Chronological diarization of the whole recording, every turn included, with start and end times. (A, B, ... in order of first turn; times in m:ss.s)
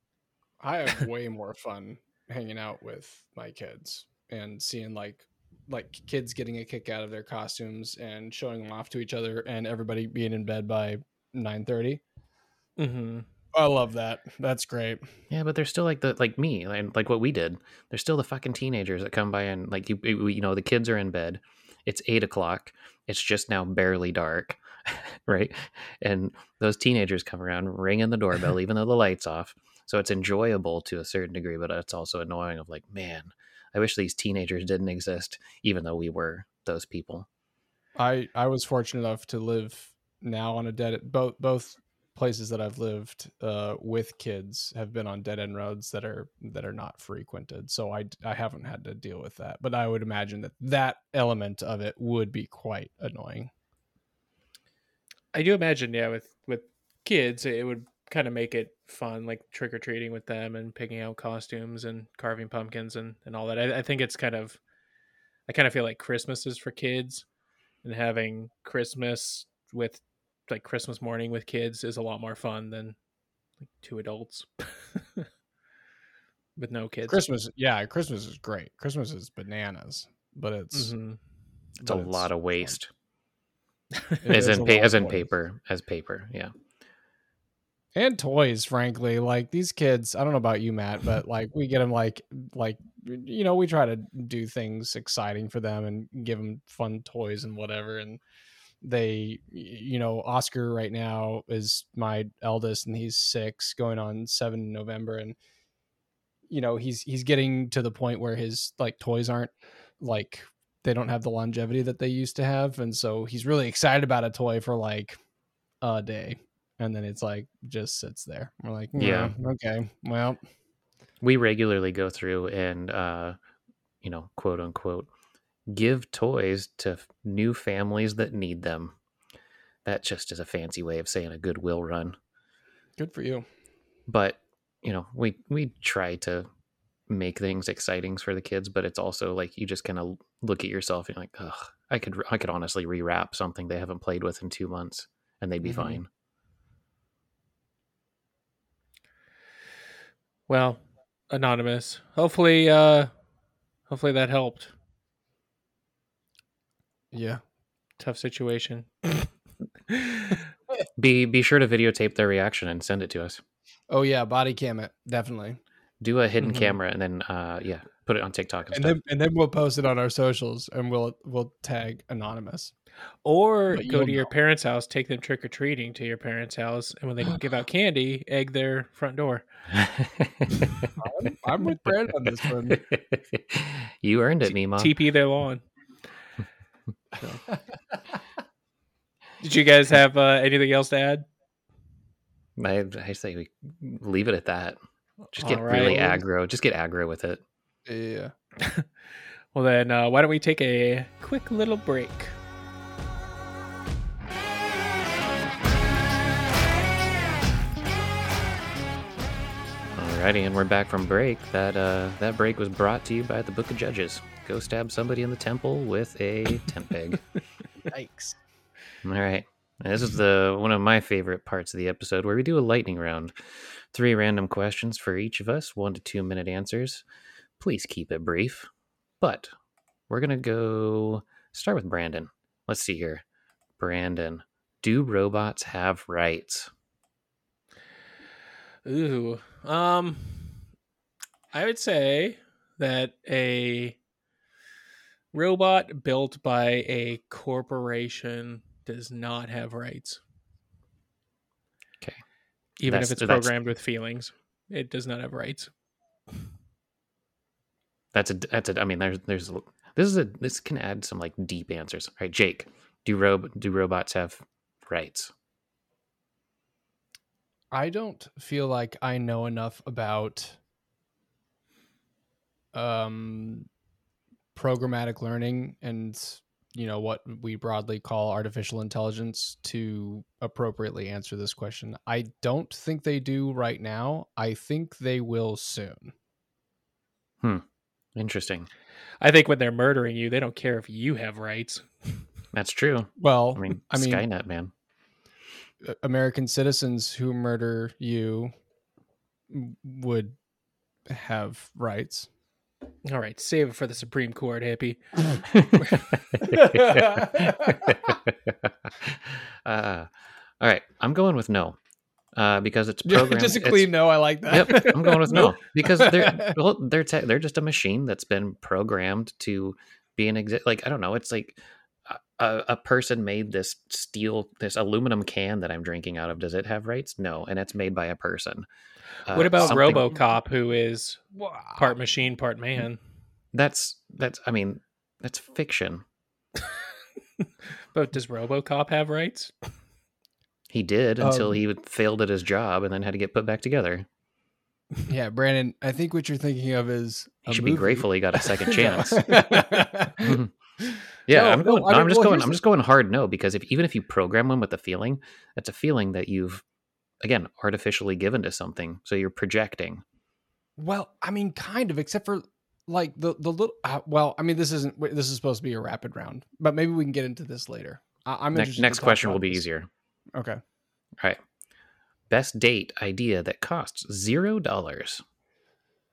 0:00.6-0:12.0 A
0:12.8-0:13.3 B
0:13.5-0:15.0 A
0:15.3-0:37.3 C
0:38.0-0:53.5 A
0:55.3-1:04.6 B
1:05.5-1:07.2 B
1:07.8-1:13.0 B
1:13.8-1:15.3 B
1:16.6-1:17.2 B
1:17.1-1:20.9 A
1:20.7-1:21.2 B
1:21.8-1:22.9 C
1:21.8-1:22.7 A
1:24.2-1:25.3 A
1:24.3-1:26.5 C
1:28.0-1:38.2 A
1:38.8-1:45.4 A
1:46.5-1:55.2 A
1:55.8-2:00.4 A
1:59.0-1:59.3 C
2:01.2-2:03.4 C
2:04.0-2:05.1 C
2:05.7-2:09.0 C
2:09.8-2:12.2 C
2:13.0-2:13.5 A
2:14.1-2:16.5 C
2:17.1-2:26.1 C
2:25.6-2:26.0 A
2:30.5-2:33.1 B
2:33.9-2:34.7 B
2:37.1-2:37.4 A
2:38.0-2:39.3 B
2:39.9-2:40.4 B
2:41.0-2:43.4 C
2:43.9-2:45.6 A
2:46.0-2:49.0 C
2:46.4-2:46.8 B
2:48.7-2:52.7 A
2:53.2-2:59.5 B
2:53.7-2:54.3 A
2:59.7-3:00.9 C
3:01.0-3:02.8 A
3:02.7-3:04.9 C
3:04.4-3:05.6 B
3:09.4-3:11.2 B
3:12.6-3:14.8 C
3:15.3-3:17.4 C
3:15.4-3:16.2 B
3:17.9-3:18.3 A
3:18.6-3:18.9 B
3:19.5-3:22.3 B
3:30.0-3:37.2 C
3:37.9-3:38.4 A
3:39.0-3:47.0 C
3:47.6-3:48.7 C
3:49.2-3:49.5 C
3:50.1-3:53.2 C
3:53.8-3:56.7 C
3:58.8-4:00.6 B
4:01.5-4:04.0 B
4:05.3-4:10.2 B
4:12.8-4:15.7 B
4:12.8-4:13.6 C
4:18.1-4:25.3 C
4:27.7-4:30.6 A
4:32.7-4:33.7 A
4:34.6-4:46.1 A
4:48.2-4:48.7 C
4:49.2-4:52.3 B
4:52.5-4:54.7 C
4:53.2-4:54.2 A
4:55.8-4:58.5 A
4:59.5-5:00.4 A
5:01.1-5:02.3 A
5:03.0-5:06.0 B
5:05.5-5:10.1 C
5:06.4-5:08.2 A
5:10.6-5:11.8 C
5:12.3-5:13.9 C
5:13.0-5:16.6 A
5:14.5-5:28.7 C
5:29.3-5:30.2 C
5:29.3-5:31.2 B
5:31.4-5:31.9 A
5:31.8-5:33.0 B
5:33.5-5:36.0 C
5:37.4-5:39.7 B
5:40.7-5:44.1 C
5:41.2-5:41.6 A
5:45.1-5:50.4 A
5:47.5-5:50.5 C
5:51.2-5:56.6 C
5:51.3-5:52.6 A
5:57.2-6:00.0 C
6:00.8-6:09.6 A
6:08.5-6:09.9 C
6:10.4-6:10.6 A
6:12.3-6:15.2 C